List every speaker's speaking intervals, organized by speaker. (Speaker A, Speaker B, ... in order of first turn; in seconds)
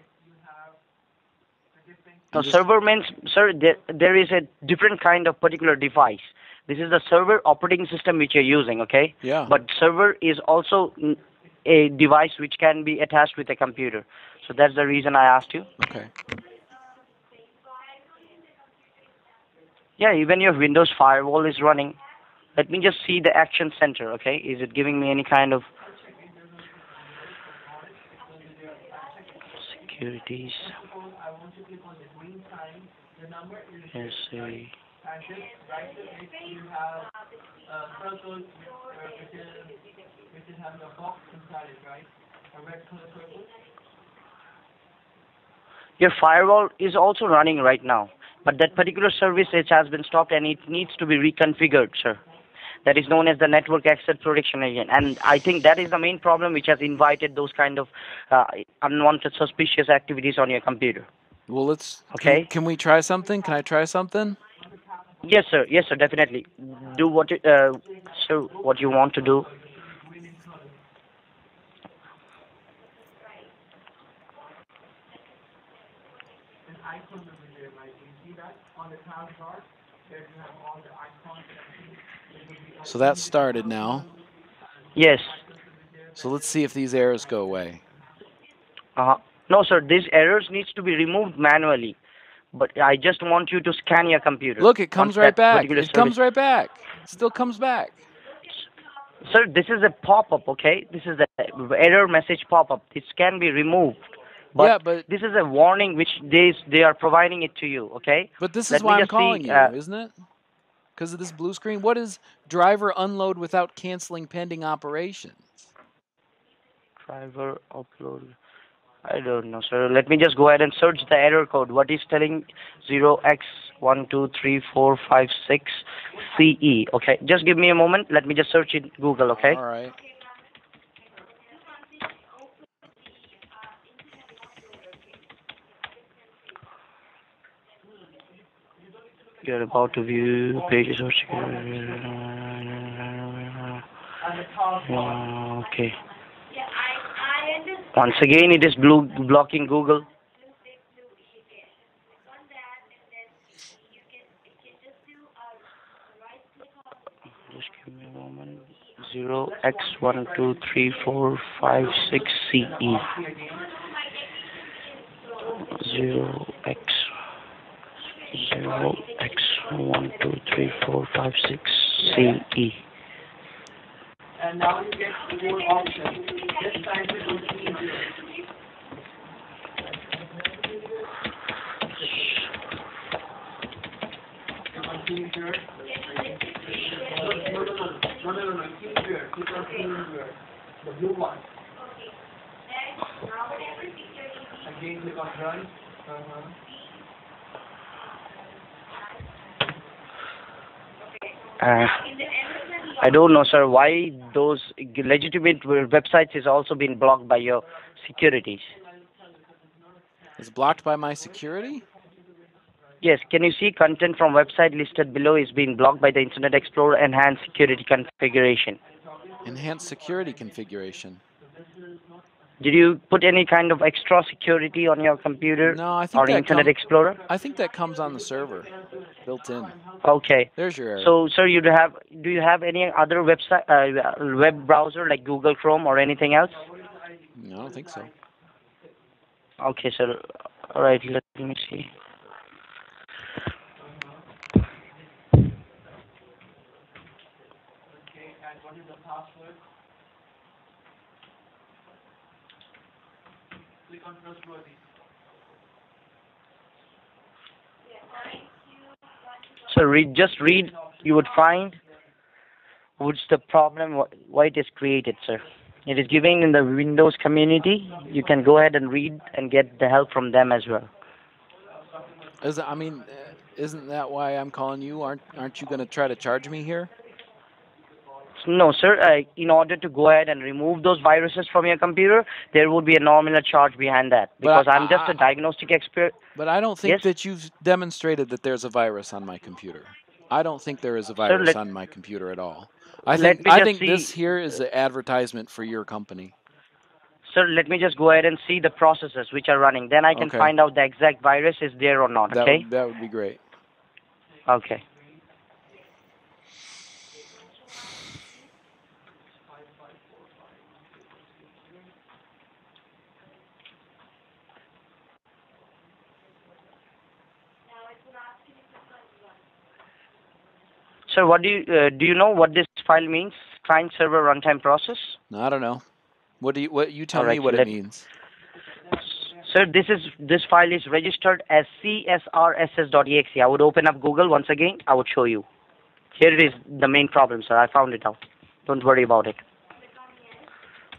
Speaker A: 2.3-15.7, 20.0-22.0, 22.6-25.6, 29.6-30.8, 33.9-34.7, 46.0-52.2, 52.8-61.1, 62.1-62.5, 65.2-69.5, 85.0-85.4, 89.0-92.0, 92.5-96.1, 99.2-109.7, 117.1-118.3, 119.0-129.6, 139.4-143.8, 144.8-146.0, 147.9-150.0, 157.5-163.1, 165.6-167.1, 168.3-172.8, 201.6-202.1, 202.9-208.7, 213.0-218.8, 222.6-227.2, 230.0-236.6, 239.6-241.9, 259.7-261.8, 263.0-270.9, 278.4-286.1, 291.2-291.6, 293.1-294.1, 297.3-302.6, 304.5-304.8, 321.1-325.2, 327.1-327.7, 329.2-335.4, 336.1-339.4
Speaker B: 2.3-2.6, 9.2-9.5, 15.8-16.1, 61.5-64.4, 82.8-84.1, 86.2-87.8, 94.6-98.0, 104.6-105.0, 108.4-110.1, 111.0-115.7, 129.3-129.9, 210.4-211.8, 219.4-221.2, 225.6-226.7, 227.3-228.7, 229.2-229.8, 230.6-231.1, 237.3-238.1, 272.4-276.9, 284.4-285.2, 286.3-296.3, 300.1-300.5, 302.3-303.4, 325.3-325.8, 326.4-328.1
Speaker C: 35.6-37.0, 37.7-39.8, 146.7-147.9, 151.1-151.7, 154.5-155.3, 165.1-165.7, 175.1-178.0, 186.0-188.4, 189.4-190.0, 192.9-194.8, 317.6-319.3